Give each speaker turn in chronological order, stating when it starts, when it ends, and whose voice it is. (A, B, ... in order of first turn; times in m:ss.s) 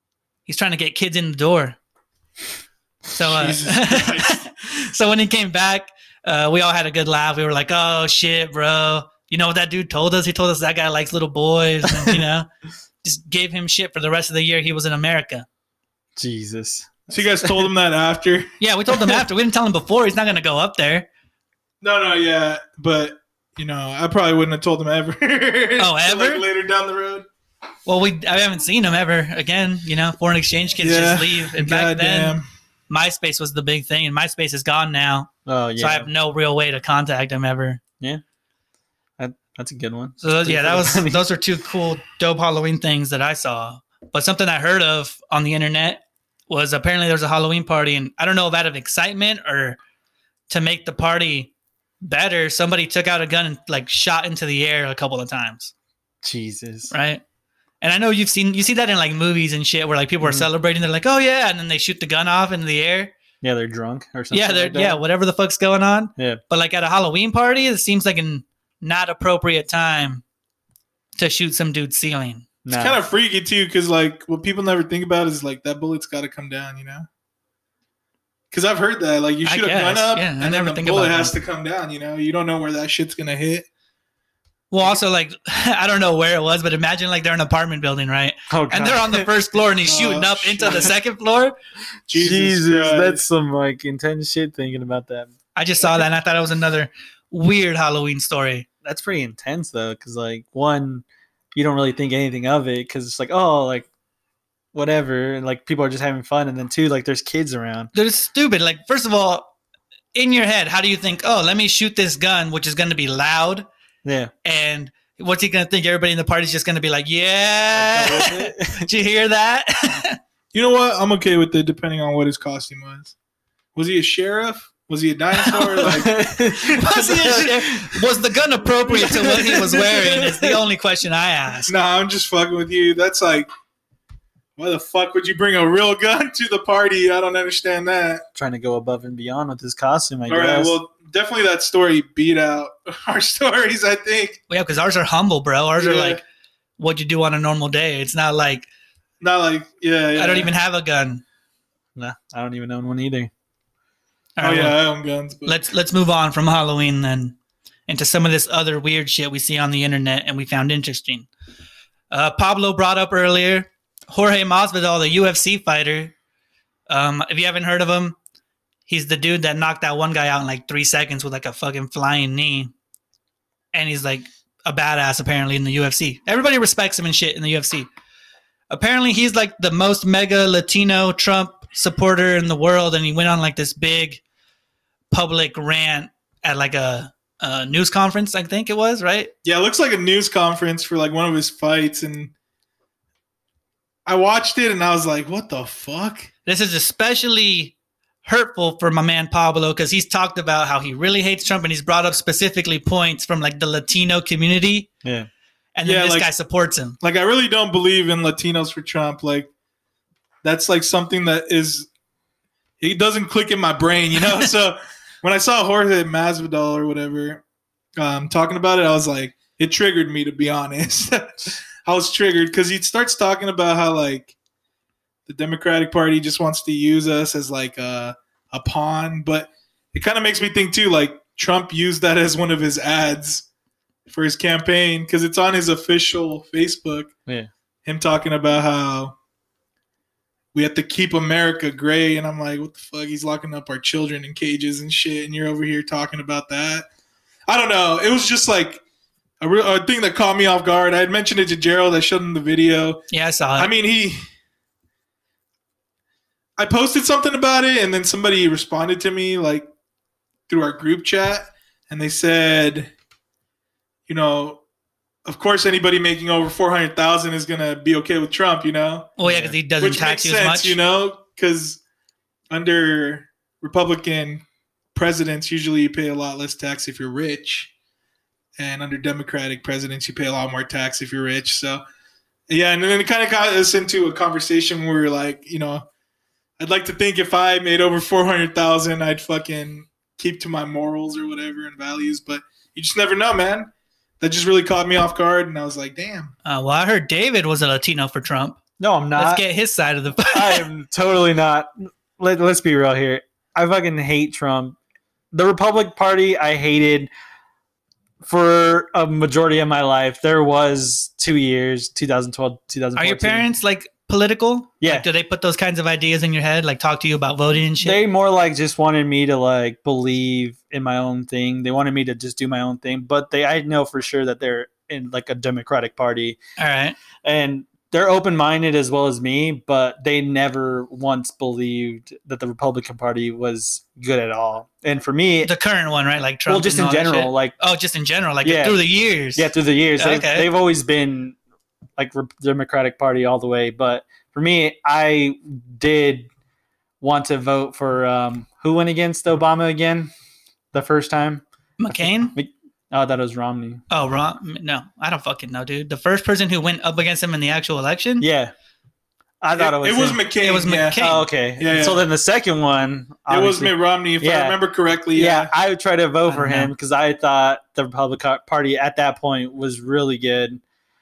0:00.4-0:01.8 A
0:03.1-0:12.5 A
0:03.2-0:04.3 B
0:13.0-0:15.4 A
0:16.2-0:17.7 C
0:17.1-0:18.5 B
0:18.6-0:21.1 A
0:21.8-0:27.2 B
0:25.8-0:26.4 A
0:27.8-0:32.4 A
0:30.8-0:32.4 B
0:32.9-0:37.8 A
0:35.4-0:36.1 C
0:39.2-0:41.2 C
0:40.2-0:49.8 A
0:50.5-0:51.5 A
0:52.0-0:55.7 A
0:56.2-0:56.9 C
0:56.9-0:57.2 A
0:57.8-1:03.1 A
1:00.2-1:00.5 C
1:03.4-1:05.0 C
1:04.3-1:10.2 A
1:11.2-1:12.5 A
1:12.6-1:13.0 C
1:12.7-1:17.1 B
1:18.5-1:23.6 B
1:19.4-1:21.3 A
1:24.7-1:31.5 A
1:28.5-1:29.3 C
1:29.8-1:31.0 B
1:32.1-1:33.2 B
1:32.1-1:35.3 C
1:35.6-1:38.7 A
1:38.8-1:43.9 C
1:44.7-1:47.9 C
1:47.9-1:49.5 A
1:50.1-1:53.6 A
1:54.0-1:54.3 C
1:54.4-2:00.2 A
1:57.7-1:58.9 C
2:00.5-2:03.1 B
2:03.7-2:06.2 B
2:05.4-2:06.0 A
2:05.5-2:08.0 C
2:06.6-2:11.7 A
2:08.9-2:10.6 C
2:11.7-2:13.5 B
2:14.6-2:18.2 B
2:18.3-2:20.8 C
2:20.3-2:24.4 B
2:24.5-2:26.2 A
2:25.8-2:26.2 B
2:26.8-2:28.7 A
2:29.2-2:30.5 B
2:30.1-2:31.2 A
2:32.0-2:33.3 C
2:34.4-2:34.8 A
2:34.4-2:35.6 B
2:35.4-2:37.4 A
2:37.9-2:41.3 A
2:42.1-2:46.1 A
2:46.9-2:48.2 A
2:48.9-2:52.7 A
2:53.7-2:57.9 A
2:58.7-3:04.2 A
3:05.1-3:09.3 A
3:09.4-3:12.3 B
3:14.0-3:16.3 B
3:16.4-3:24.9 A
3:25.8-3:27.0 A
3:25.8-3:26.3 B
3:27.0-3:29.5 B
3:30.4-3:31.9 B
3:32.8-3:37.4 B
3:38.0-3:44.3 B
3:45.3-3:53.4 B
3:54.1-3:57.1 B
3:57.8-3:59.1 B
4:00.5-4:06.9 B
4:07.5-4:08.8 B
4:09.4-4:13.0 B
4:13.1-4:13.7 A
4:13.6-4:14.2 B
4:16.6-4:19.7 B
4:20.5-4:22.9 B
4:24.1-4:24.6 B
4:25.2-4:29.1 B
4:29.2-4:30.8 A
4:29.2-4:29.6 C
4:29.8-4:31.8 B
4:32.5-4:34.4 B
4:34.9-4:37.7 B
4:38.6-4:41.8 B
4:42.5-4:45.8 B
4:46.6-4:56.3 B
4:56.4-4:58.6 A
4:58.8-4:59.4 C
4:59.1-5:00.7 A
5:00.3-5:04.8 C
5:05.3-5:07.1 C
5:08.2-5:13.5 C
5:13.0-5:18.0 A
5:14.8-5:15.1 C
5:17.8-5:26.4 C
5:26.6-5:27.0 A
5:27.2-5:35.5 C
5:35.4-5:40.5 A
5:36.5-5:37.5 C
5:38.4-5:38.8 C
5:39.3-5:41.4 C
5:42.0-5:46.3 C
5:47.0-5:50.1 C
5:50.7-5:53.8 C
5:51.8-5:52.3 A
5:53.9-5:58.3 A
5:58.2-5:58.5 C
5:59.4-6:00.2 C
5:59.5-6:02.0 B
6:00.4-6:01.2 A
6:01.0-6:04.6 C
6:03.3-6:05.5 B
6:05.1-6:10.6 C
6:06.3-6:06.7 A